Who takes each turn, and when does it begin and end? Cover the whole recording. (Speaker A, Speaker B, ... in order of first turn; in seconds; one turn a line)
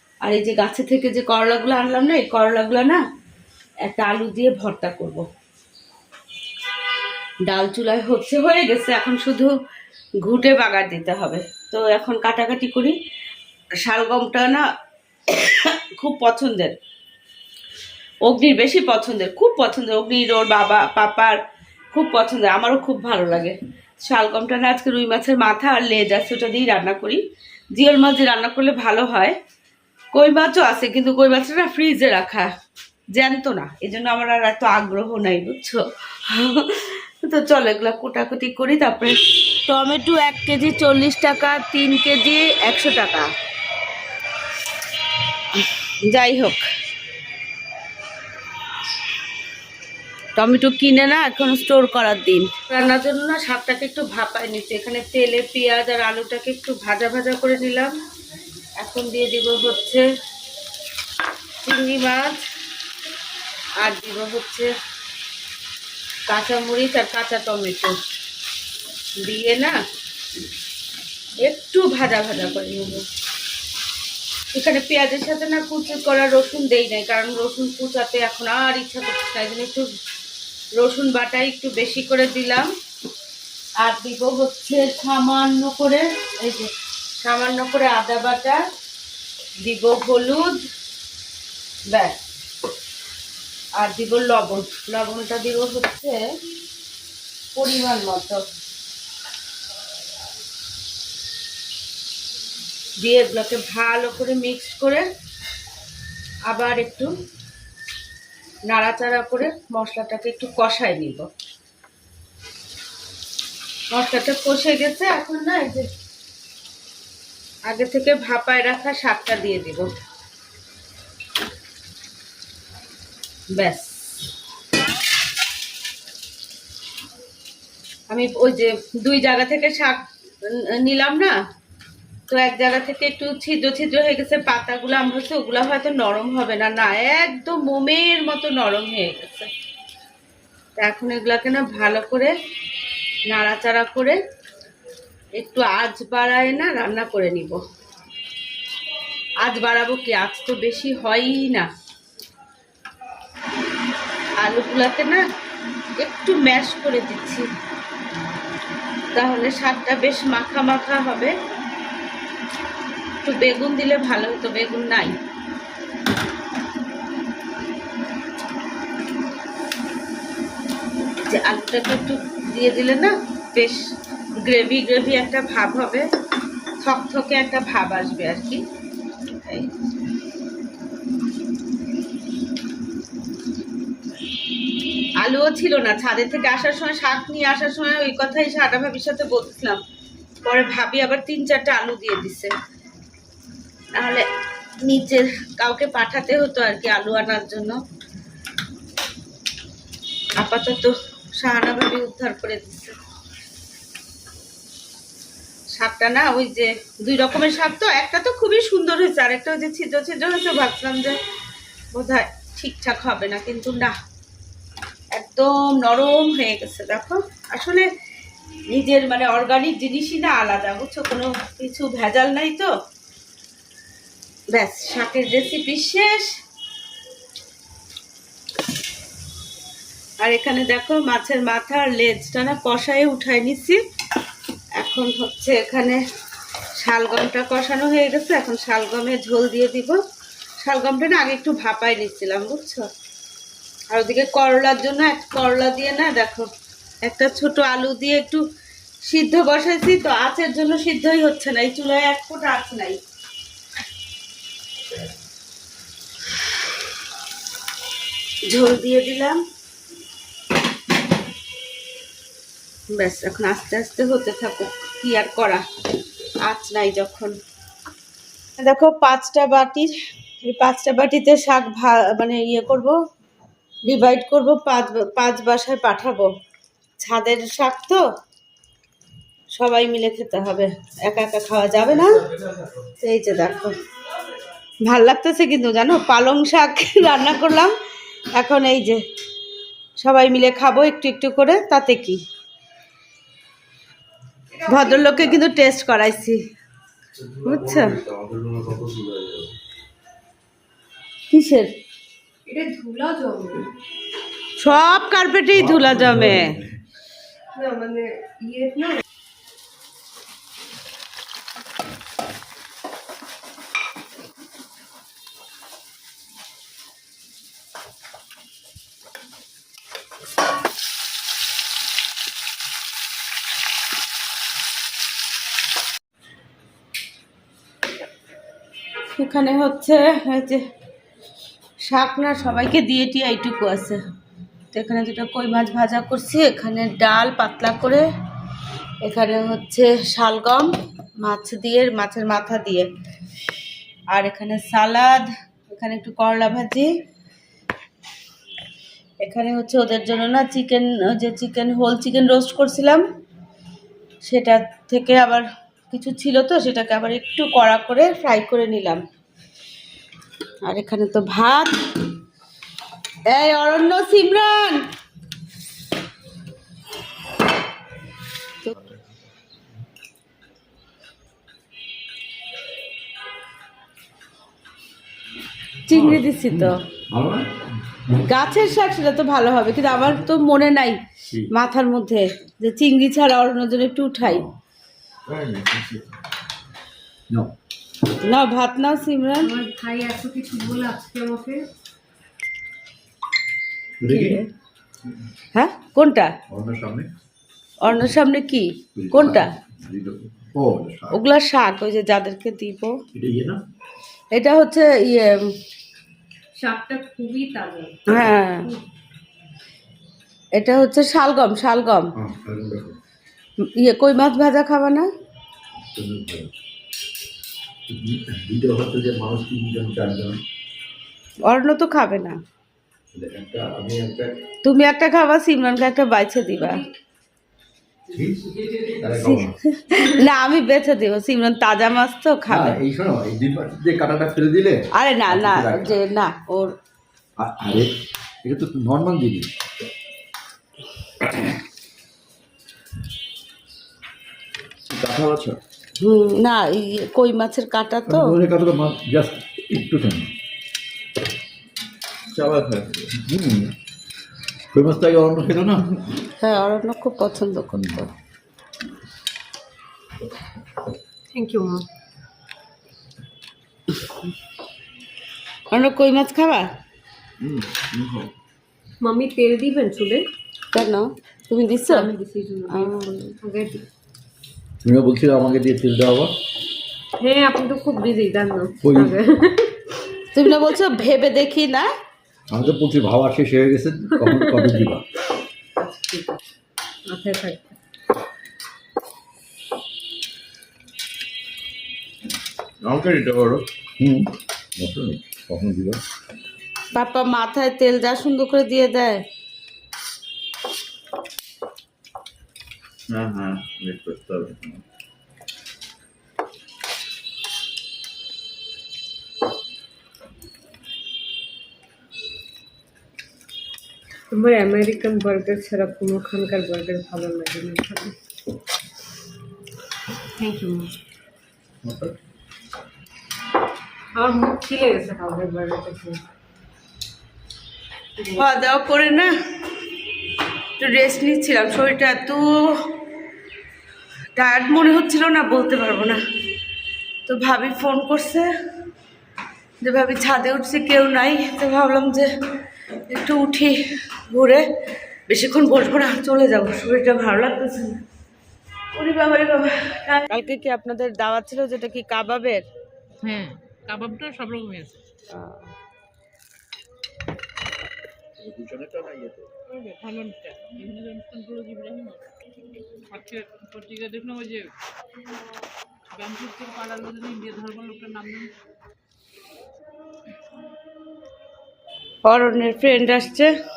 Speaker A: 0.2-3.0
Speaker A: 3.8-5.2
Speaker A: 7.5-9.5
Speaker A: 10.2-12.9
Speaker A: 13.8-14.7
Speaker A: 15.3-16.7
Speaker A: 18.2-21.4
Speaker A: 21.9-27.2
Speaker A: 27.7-29.4
Speaker A: 30.1-32.5
Speaker A: 33.1-43.3
Speaker A: 46.0-46.7
Speaker A: 50.4-57.9
Speaker A: 58.8-60.0
Speaker A: 61.6-62.4
Speaker A: 63.8-64.7
Speaker A: 66.3-68.0
Speaker A: 69.2-69.8
Speaker A: 71.4-73.0
Speaker A: 74.5-79.9
Speaker A: 80.8-82.7
Speaker A: 83.8-86.7
Speaker A: 87.2-88.6
Speaker A: 89.6-90.6
Speaker A: 91.9-92.1
Speaker A: 93.8-96.2
Speaker A: 97.5-98.4
Speaker A: 103.0-105.1
Speaker A: 106.5-107.1
Speaker A: 108.7-111.3
Speaker A: 113.9-115.9
Speaker A: 117.7-119.9
Speaker A: 123.5-123.9
Speaker A: 128.1-131.4
Speaker A: 132.3-139.5
Speaker A: 140.8-142.3
Speaker A: 143.3-144.2
Speaker A: 145.3-147.6
Speaker A: 149.4-151.7
Speaker A: 154.4-155.2
Speaker A: 156.0-157.5
Speaker A: 159.1-161.3
Speaker A: 163.2-165.2
Speaker A: 171.3-173.9
Speaker A: 174.4-176.1
Speaker A: 176.8-178.6
Speaker A: 185.2-189.8
Speaker A: 190.4-192.5
Speaker A: 193.9-194.3
Speaker A: 194.8-197.8
Speaker A: 200.4-203.0
Speaker A: 205.7-211.2
Speaker A: 211.9-214.0
Speaker A: 215.1-217.9
Speaker A: 218.7-222.7
Speaker A: 224.5-226.3
Speaker A: 230.2-233.8
Speaker A: 234.8-236.0
Speaker A: 236.8-240.0
Speaker A: 240.6-242.9
Speaker A: 243.9-246.5
Speaker A: 247.0-248.4
Speaker A: 249.1-253.0
Speaker A: 258.5-259.4
Speaker A: 262.9-265.6
Speaker A: 266.4-267.3
Speaker A: 268.6-273.0
Speaker A: 273.9-276.3
Speaker A: 277.0-278.0
Speaker A: 279.5-282.2
Speaker B: 282.0-282.8
Speaker A: 283.0-283.8
Speaker A: 284.9-287.7
Speaker A: 288.3-289.0
Speaker A: 290.0-292.2
Speaker C: 294.5-295.4
Speaker A: 294.7-296.4
Speaker B: 297.1-299.5
Speaker A: 297.4-297.9
Speaker A: 301.3-301.7
Speaker C: 302.4-303.7
Speaker A: 304.6-306.5
Speaker B: 305.5-306.7
Speaker C: 307.5-309.0
Speaker A: 329.1-330.6
Speaker A: 331.9-334.0
Speaker A: 334.7-338.1
Speaker A: 339.0-342.9
Speaker A: 344.1-346.9
Speaker A: 349.2-353.0
Speaker A: 354.2-359.0
Speaker A: 360.6-361.7
Speaker A: 363.3-364.8
Speaker A: 375.9-376.8
Speaker B: 375.9-377.6
Speaker A: 378.3-381.0
Speaker A: 381.5-384.4
Speaker B: 384.2-384.5
Speaker B: 385.2-386.1
Speaker A: 388.2-389.5
Speaker C: 389.4-391.6
Speaker B: 394.0-394.4
Speaker A: 394.1-394.4
Speaker A: 395.5-396.3
Speaker B: 396.5-397.1
Speaker A: 397.8-399.5
Speaker B: 398.9-401.2
Speaker A: 401.1-402.9
Speaker B: 403.1-403.6
Speaker A: 404.3-405.4
Speaker C: 406.6-408.8
Speaker A: 408.1-408.7
Speaker A: 410.6-412.1
Speaker B: 412.1-413.0
Speaker A: 413.8-415.1
Speaker B: 415.8-416.5
Speaker B: 417.9-420.4
Speaker A: 421.5-422.4
Speaker B: 423.1-424.3
Speaker A: 424.6-426.8
Speaker C: 426.6-426.9
Speaker B: 428.1-429.6
Speaker A: 429.1-432.8
Speaker B: 432.5-435.9
Speaker A: 434.9-436.7
Speaker B: 437.4-439.5
Speaker B: 444.9-445.6
Speaker A: 446.0-448.4
Speaker B: 448.1-450.3
Speaker B: 452.3-453.7
Speaker B: 454.7-456.1
Speaker A: 456.4-457.7
Speaker B: 457.7-458.1
Speaker C: 461.3-461.8
Speaker A: 465.7-466.7
Speaker B: 467.4-468.3
Speaker C: 469.0-470.2
Speaker A: 470.7-472.1
Speaker C: 471.9-473.8
Speaker A: 472.7-473.3
Speaker B: 474.8-476.4
Speaker C: 477.2-479.8
Speaker B: 478.8-479.2
Speaker A: 480.3-481.9
Speaker B: 482.5-485.0
Speaker C: 484.2-484.7
Speaker C: 485.8-486.4
Speaker C: 487.1-487.8
Speaker B: 492.9-496.0
Speaker A: 496.9-499.2
Speaker B: 503.1-504.8
Speaker C: 514.3-518.1
Speaker C: 520.4-521.0
Speaker B: 521.8-522.1
Speaker C: 524.1-526.2
Speaker C: 528.2-528.5
Speaker A: 528.4-529.3
Speaker A: 530.8-532.9
Speaker A: 534.4-536.2
Speaker A: 537.3-538.5
Speaker A: 539.8-542.3
Speaker A: 543.1-544.6
Speaker A: 545.3-548.0
Speaker A: 548.9-552.6
Speaker D: 553.2-555.0
Speaker A: 555.3-555.7
Speaker B: 558.4-559.5
Speaker D: 559.7-562.2
Speaker D: 563.1-564.7
Speaker D: 566.1-568.5
Speaker A: 572.2-573.5